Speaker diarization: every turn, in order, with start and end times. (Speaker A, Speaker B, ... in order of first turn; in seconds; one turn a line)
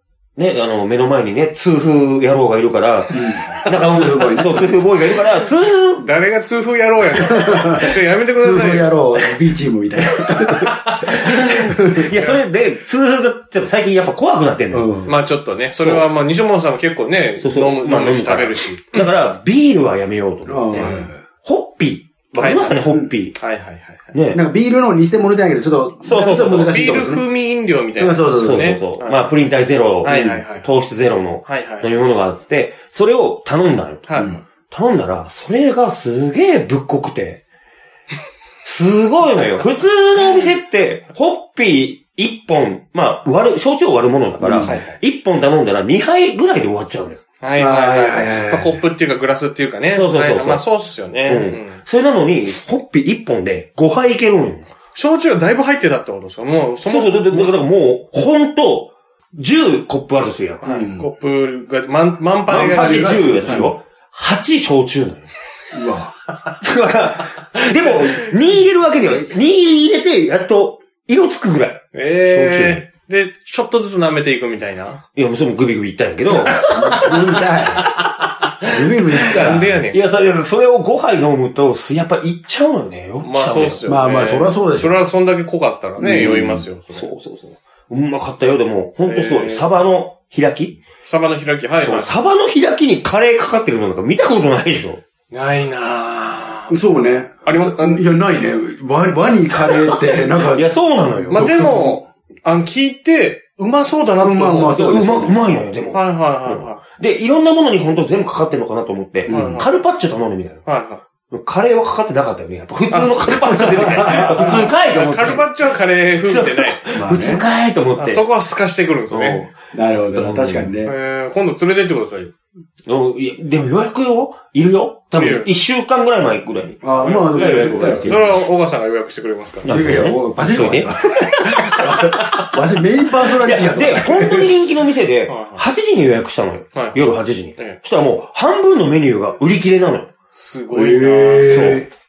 Speaker A: 0.4-6.1
Speaker B: 3.1-4.7
Speaker C: 6.0-9.3
Speaker B: 7.3-12.1
Speaker A: 10.7-14.9
Speaker C: 12.1-12.4
Speaker B: 14.7-15.1
Speaker C: 15.0-19.0
Speaker A: 15.8-16.1
Speaker A: 17.4-23.4
Speaker B: 20.5-21.1
Speaker C: 22.4-22.8
Speaker C: 23.4-24.1
Speaker A: 24.1-24.4
Speaker B: 24.3-27.2
Speaker A: 26.0-27.1
Speaker C: 26.2-29.3
Speaker B: 28.0-28.7
Speaker A: 28.4-37.4
Speaker C: 30.0-30.7
Speaker B: 30.1-30.4
Speaker C: 31.4-31.9
Speaker C: 34.1-34.4
Speaker A: 38.6-47.2
Speaker B: 44.4-44.8
Speaker C: 44.6-44.9
Speaker C: 47.4-51.8
Speaker B: 47.6-48.8
Speaker A: 49.9-50.6
Speaker A: 51.2-54.7
Speaker C: 54.9-57.5
Speaker A: 56.8-60.6
Speaker C: 60.6-63.2
Speaker B: 60.6-61.1
Speaker A: 62.5-65.3
Speaker B: 62.5-63.7
Speaker B: 65.7-66.1
Speaker A: 66.6-72.8
Speaker C: 71.9-75.0
Speaker A: 75.1-77.1
Speaker C: 76.4-76.7
Speaker B: 76.7-77.8
Speaker A: 78.0-78.6
Speaker B: 78.7-79.8
Speaker C: 79.2-80.0
Speaker A: 79.2-83.9
Speaker C: 83.2-87.1
Speaker B: 83.9-85.0
Speaker B: 86.0-86.6
Speaker A: 86.9-90.8
Speaker C: 89.0-89.7
Speaker C: 91.0-92.1
Speaker A: 91.8-95.0
Speaker C: 95.3-96.7
Speaker B: 96.7-100.6
Speaker C: 97.5-98.0
Speaker A: 100.4-101.7
Speaker C: 101.3-104.8
Speaker B: 101.3-102.0
Speaker B: 104.2-105.4
Speaker A: 104.7-110.6
Speaker C: 105.9-106.8
Speaker B: 109.3-109.6
Speaker C: 109.3-109.7
Speaker C: 110.7-111.0
Speaker A: 111.3-115.5
Speaker C: 112.9-113.2
Speaker B: 113.5-114.7
Speaker C: 113.9-116.8
Speaker A: 116.2-118.2
Speaker B: 117.0-117.4
Speaker C: 118.0-119.5
Speaker A: 119.1-119.5
Speaker B: 119.7-120.9
Speaker A: 120.2-120.7
Speaker C: 120.8-122.3
Speaker A: 122.8-128.3
Speaker C: 125.1-125.5
Speaker B: 126.8-128.3
Speaker C: 127.0-129.7
Speaker A: 129.6-132.5
Speaker B: 129.7-134.5
Speaker A: 133.4-140.1
Speaker C: 135.3-135.6
Speaker C: 136.7-137.8
Speaker C: 140.3-141.8
Speaker B: 140.7-141.9
Speaker A: 141.5-141.8